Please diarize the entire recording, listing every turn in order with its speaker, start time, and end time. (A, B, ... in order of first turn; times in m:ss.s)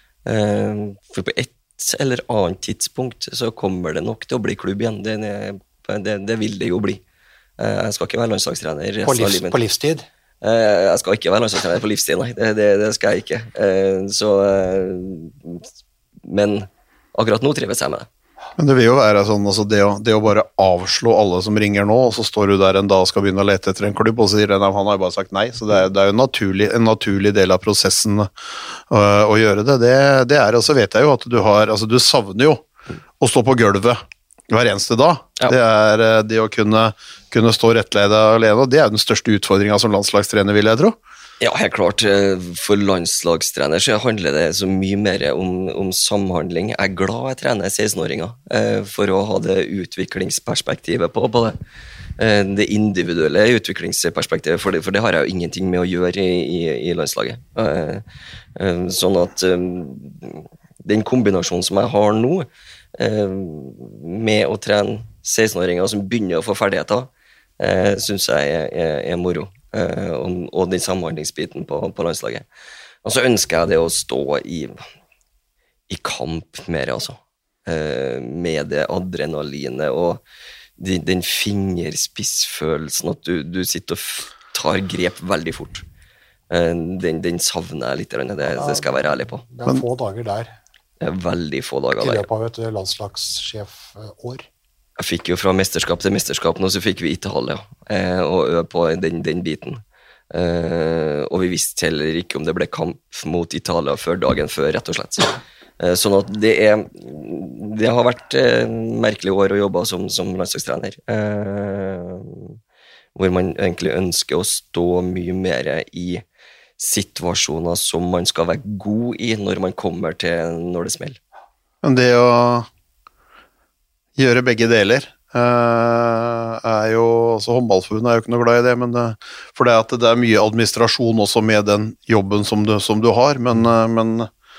0:00.3-0:07.0 A
0:07.6-0:09.6 A
0:09.0-0:10.0 B
0:10.4-0:15.7 A
0:16.2-0:18.1 A
0:18.6-0:28.3 C
0:28.9-0:32.6 C
0:33.2-0:41.0 C
0:41.4-0:51.6 A
0:52.2-0:58.0 A
0:58.6-1:12.4 A
1:13.0-1:14.8 A
1:15.9-1:20.2 A
1:20.8-1:25.8 A
1:26.5-1:29.5 A
1:28.6-1:30.6 B
1:31.0-1:32.3 A
1:32.0-1:34.5 B
1:35.0-1:52.6 A
1:53.2-1:56.2 A
1:56.8-2:01.2 A
2:01.8-2:02.7 C
2:04.2-2:14.3 C